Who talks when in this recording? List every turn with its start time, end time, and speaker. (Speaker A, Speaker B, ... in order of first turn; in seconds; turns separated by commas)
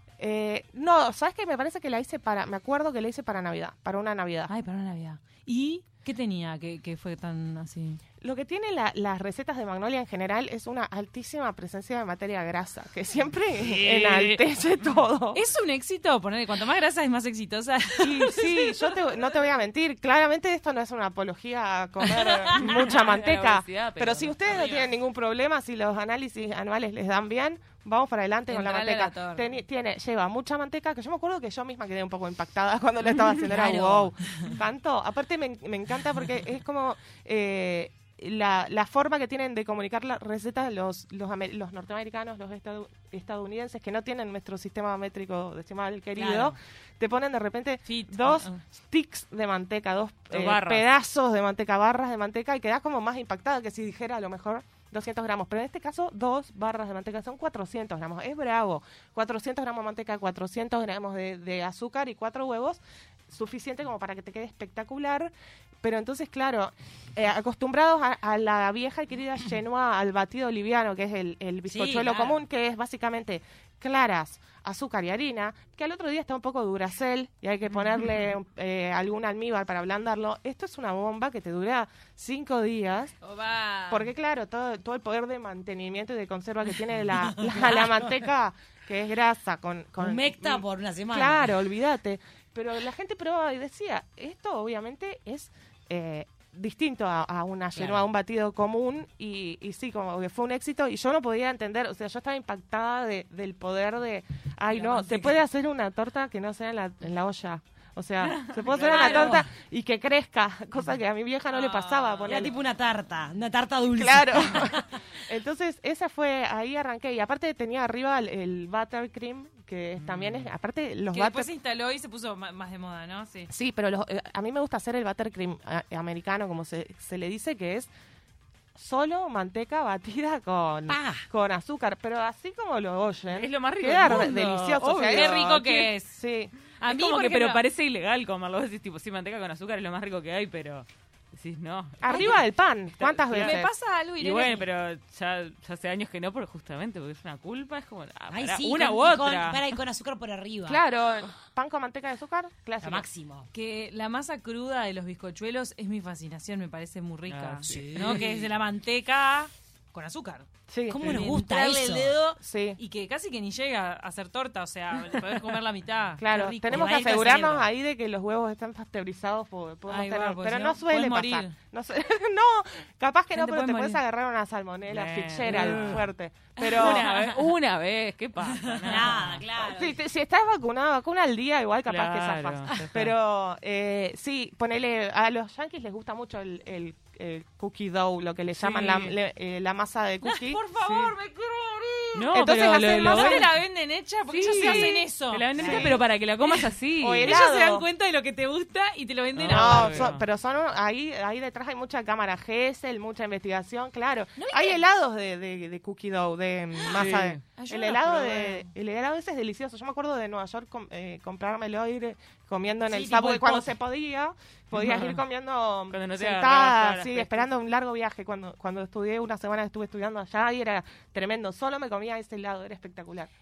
Speaker A: 0.2-4.5, Speaker B: 4.5-8.0, Speaker A: 8.2-15.4, Speaker C: 13.7-14.4, Speaker B: 15.3-19.0, Speaker A: 18.0-83.1, Speaker B: 22.2-22.8, Speaker C: 22.6-24.7, Speaker B: 24.4-24.9, Speaker B: 28.5-29.6, Speaker D: 33.4-34.1, Speaker D: 46.1-46.6, Speaker B: 47.9-48.6, Speaker C: 50.3-50.9, Speaker D: 71.7-72.4, Speaker B: 83.2-84.1, Speaker A: 83.9-112.5, Speaker D: 87.4-88.1, Speaker D: 90.0-91.6, Speaker D: 97.7-98.0, Speaker B: 104.8-105.1, Speaker D: 104.8-105.3, Speaker C: 108.3-108.6, Speaker B: 108.7-109.3, Speaker D: 108.7-109.5, Speaker B: 111.5-112.5, Speaker D: 112.2-114.9, Speaker A: 114.0-121.5, Speaker C: 120.0-120.5, Speaker B: 121.1-123.5, Speaker A: 123.5-127.9, Speaker A: 128.7-136.5, Speaker D: 130.9-131.3, Speaker C: 133.3-135.4, Speaker B: 135.1-136.2, Speaker B: 136.8-137.6, Speaker C: 136.8-142.4, Speaker A: 142.0-143.7, Speaker C: 143.0-143.6, Speaker B: 143.3-144.7, Speaker C: 144.2-149.6, Speaker D: 148.3-150.8, Speaker B: 148.6-149.6, Speaker A: 150.7-153.1, Speaker D: 152.8-153.5, Speaker B: 153.5-160.4, Speaker C: 157.3-158.2, Speaker D: 157.6-158.4, Speaker A: 160.7-161.0, Speaker D: 160.9-162.1, Speaker B: 161.0-167.2, Speaker A: 162.4-162.8, Speaker A: 166.2-177.0, Speaker D: 166.7-167.7, Speaker B: 169.9-171.5, Speaker B: 173.3-174.0, Speaker C: 174.9-176.0, Speaker D: 175.6-175.8, Speaker B: 175.6-175.9, Speaker B: 176.6-177.4, Speaker C: 176.8-179.4, Speaker B: 178.6-179.3, Speaker D: 178.8-180.0, Speaker A: 179.6-190.6, Speaker C: 181.9-183.1, Speaker C: 188.5-189.1, Speaker B: 190.2-200.1, Speaker C: 192.1-193.5, Speaker A: 192.3-193.5, Speaker C: 194.3-197.3, Speaker A: 194.5-195.0, Speaker A: 195.6-195.9, Speaker D: 195.6-195.9, Speaker A: 197.0-197.9, Speaker C: 199.3-200.2, Speaker A: 199.4-223.3, Speaker B: 204.4-204.8, Speaker C: 206.8-207.4, Speaker B: 206.9-208.7, Speaker D: 212.9-213.8, Speaker C: 214.7-215.2, Speaker C: 215.9-217.5